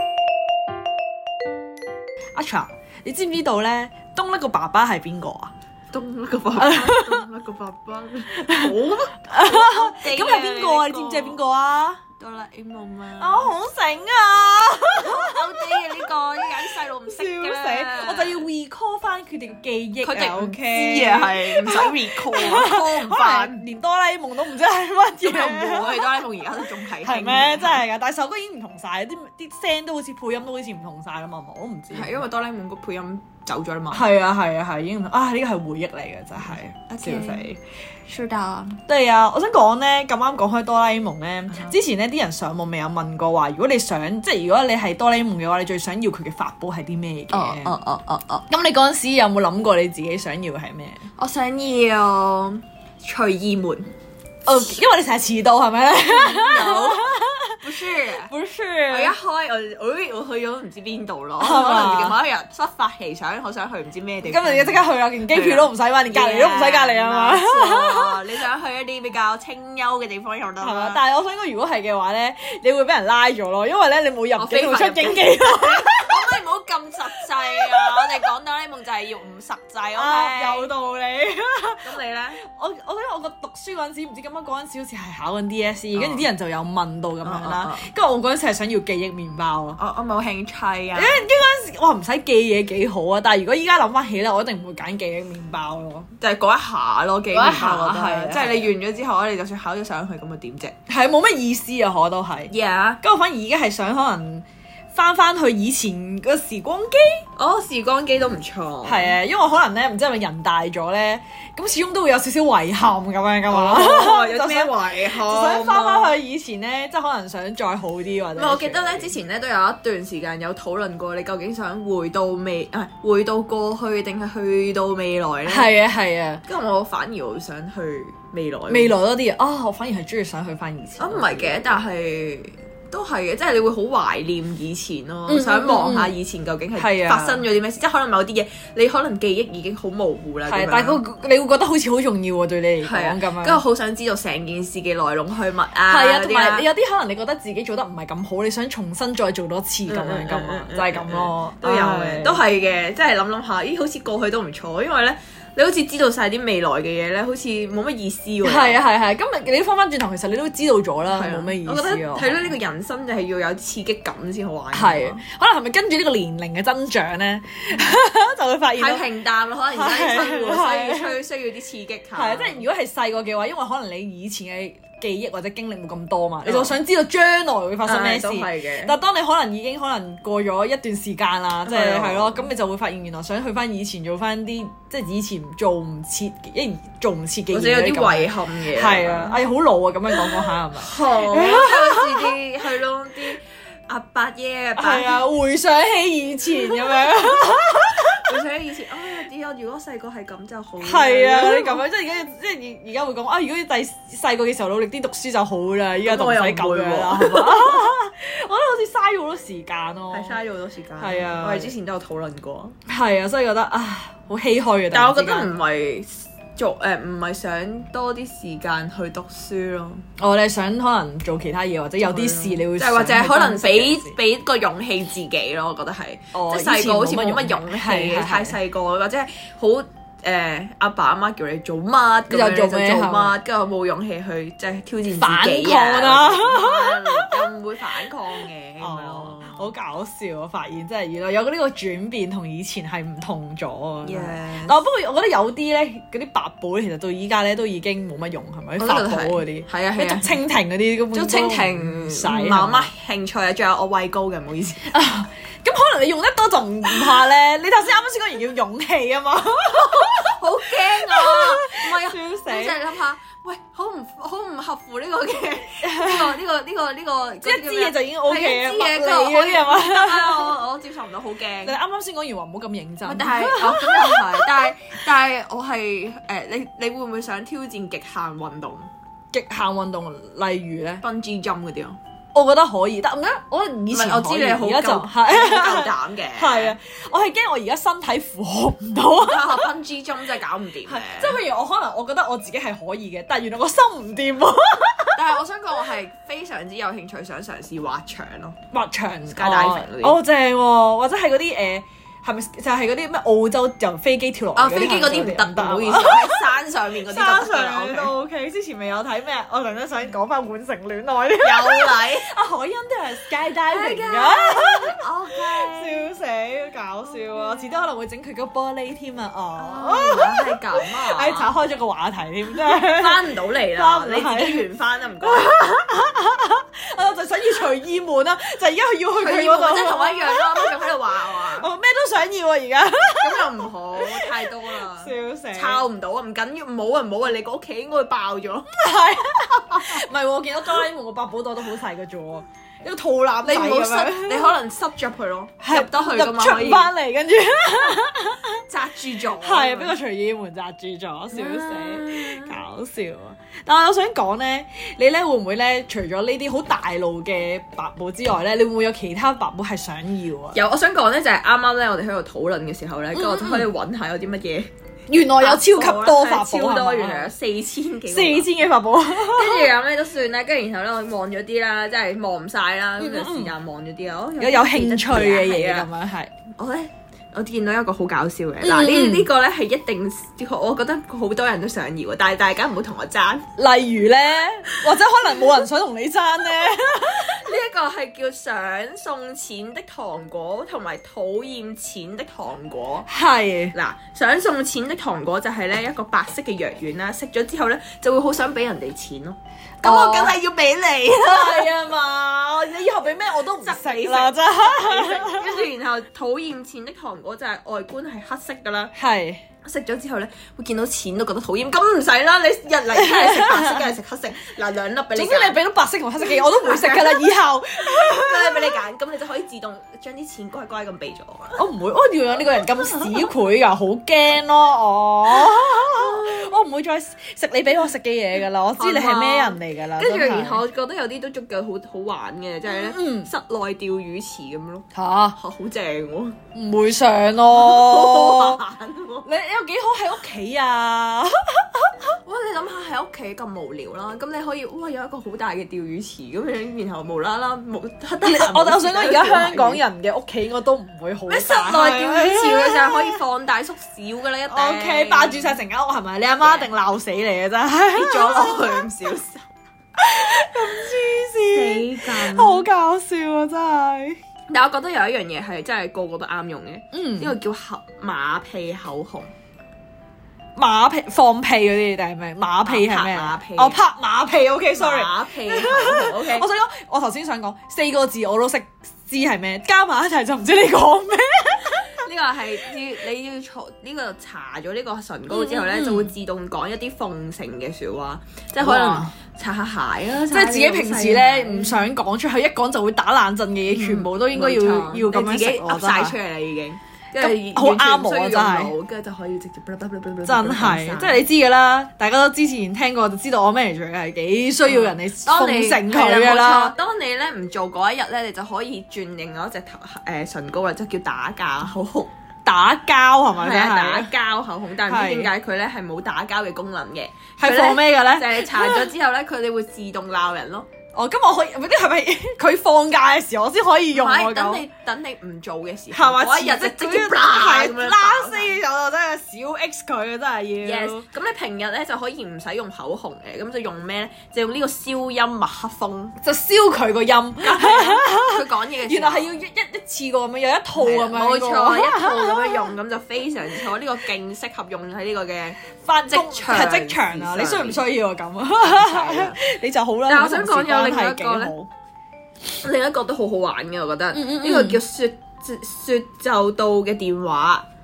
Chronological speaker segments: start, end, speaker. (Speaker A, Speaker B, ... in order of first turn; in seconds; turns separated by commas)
Speaker A: 2.3-5.5, Speaker B: 5.9-11.4, Speaker A: 6.5-7.2, Speaker A: 8.3-12.0, Speaker B: 12.2-13.5, Speaker A: 13.2-15.9, Speaker B: 14.9-18.4, Speaker A: 16.6-26.2, Speaker B: 20.0-23.6, Speaker B: 25.2-27.9, Speaker A: 26.8-32.2, Speaker B: 31.9-34.0, Speaker A: 33.9-37.5, Speaker B: 36.9-38.8, Speaker A: 38.9-47.8, Speaker B: 47.3-48.5, Speaker A: 48.5-51.0, Speaker B: 51.2-53.9, Speaker A: 54.4-59.1, Speaker B: 56.0-58.3, Speaker B: 58.9-71.0, Speaker A: 61.4-62.2, Speaker A: 64.2-68.2, Speaker A: 70.6-76.4, Speaker B: 74.4-80.7, Speaker A: 77.4-78.2, Speaker A: 79.9-81.9, Speaker B: 81.8-82.4, Speaker A: 82.5-89.8, Speaker B: 85.9-86.2, Speaker B: 87.2-87.9, Speaker B: 89.8-91.2, Speaker A: 90.9-96.1, Speaker B: 96.2-100.7, Speaker A: 97.3-98.7, Speaker A: 100.9-107.2, Speaker B: 102.5-103.0, Speaker B: 107.3-109.2, Speaker A: 108.8-119.1, Speaker B: 113.5-116.2, Speaker B: 118.3-125.7, Speaker A: 125.5-126.4, Speaker B: 126.5-128.9, Speaker A: 128.7-131.8, Speaker B: 131.0-141.0, Speaker A: 135.3-136.1, Speaker A: 136.8-137.4, Speaker A: 140.5-143.6, Speaker B: 142.8-146.7, Speaker A: 145.9-152.4, Speaker B: 149.8-158.8, Speaker A: 158.4-162.5, Speaker B: 161.1-165.2, Speaker A: 164.7-169.1, Speaker B: 168.8-172.6, Speaker A: 169.7-171.1, Speaker A: 172.1-192.3, Speaker B: 176.4-176.7, Speaker B: 177.8-179.0, Speaker B: 181.6-182.4, Speaker B: 187.5-189.4, Speaker B: 190.1-195.2, Speaker A: 194.8-198.4, Speaker B: 196.5-201.8, Speaker A: 200.8-210.4, Speaker B: 206.0-207.8, Speaker B: 210.1-212.8, Speaker A: 211.0-211.7, Speaker A: 212.9-215.5, Speaker B: 214.9-220.1, Speaker A: 220.2-224.2, Speaker B: 222.0-239.7, Speaker A: 226.3-228.6, Speaker A: 232.3-233.4, Speaker A: 235.1-237.4, Speaker A: 238.8-252.9, Speaker B: 244.0-244.8, Speaker B: 248.8-250.4, Speaker B: 251.1-254.9, Speaker A: 254.8-262.8, Speaker B: 259.7-271.8, Speaker A: 265.8-266.4, Speaker A: 267.4-270.6, Speaker A: 271.6-274.7, Speaker B: 273.0-278.9, Speaker A: 279.3-281.0, Speaker B: 281.0-282.0, Speaker A: 282.3-289.7, Speaker B: 283.9-286.8, Speaker B: 289.2-291.4, Speaker A: 290.8-295.2, Speaker B: 295.1-298.6, Speaker A: 298.7-324.6, Speaker B: 299.3-300.2, Speaker B: 304.5-308.1, Speaker B: 311.4-312.3, Speaker B: 313.7-316.1, Speaker B: 319.6-321.5, Speaker B: 322.6-325.6, Speaker A: 325.2-330.9, Speaker B: 329.1-331.7, Speaker A: 331.5-335.8, Speaker B: 333.2-338.7, Speaker A: 338.7-344.6, Speaker B: 343.4-346.9, Speaker A: 345.6-348.6, Speaker B: 348.7-349.9, Speaker A: 349.4-360.6, Speaker B: 351.3-352.6, Speaker B: 360.5-364.7, Speaker A: 363.1-363.7, Speaker A: 365.1-367.3, Speaker B: 365.4-368.5, Speaker A: 368.1-369.7, Speaker B: 369.1-375.9, Speaker A: 373.0-373.5, Speaker A: 374.4-376.3, Speaker B: 376.6-383.5, Speaker A: 378.6-379.3, Speaker A: 383.6-387.4, Speaker B: 387.0-393.1, Speaker A: 393.1-393.7, Speaker B: 393.7-401.7, Speaker A: 399.8-400.4, Speaker A: 401.2-405.6, Speaker B: 403.6-408.9, Speaker A: 408.9-409.4, Speaker B: 409.6-415.6, Speaker A: 412.9-413.9, Speaker A: 415.1-418.8, Speaker B: 416.2-417.3, Speaker B: 417.8-421.6, Speaker A: 421.6-430.6, Speaker B: 425.4-426.4, Speaker B: 428.8-436.4, Speaker A: 432.6-433.3, Speaker A: 434.9-435.4, Speaker A: 436.5-438.6, Speaker B: 437.5-439.3, Speaker A: 439.2-442.1, Speaker B: 442.2-449.8, Speaker A: 448.2-453.2, Speaker B: 451.3-455.6, Speaker A: 454.5-458.8, Speaker B: 456.4-456.7, Speaker B: 457.9-459.5, Speaker A: 460.0-464.2, Speaker B: 461.5-462.7, Speaker B: 464.5-469.3, Speaker A: 466.9-467.4, Speaker A: 470.6-481.9, Speaker B: 472.6-473.8, Speaker B: 474.8-476.5, Speaker B: 481.8-491.9, Speaker A: 485.3-486.1, Speaker A: 488.6-489.1, Speaker A: 490.3-496.1, Speaker B: 493.7-501.2, Speaker A: 497.2-498.7, Speaker A: 500.2-506.7, Speaker B: 504.7-512.1, Speaker A: 512.4-514.1, Speaker B: 513.4-520.7, Speaker A: 514.9-515.3, Speaker A: 517.4-518.9, Speaker A: 520.9-524.6, Speaker B: 523.9-528.6, Speaker A: 525.9-531.0, Speaker B: 530.6-536.1, Speaker A: 536.2-542.7, Speaker B: 537.4-539.3, Speaker B: 540.7-547.9, Speaker A: 545.8-551.7, Speaker B: 548.6-549.4, Speaker B: 550.0-551.5, Speaker B: 552.6-557.6, Speaker A: 554.1-554.8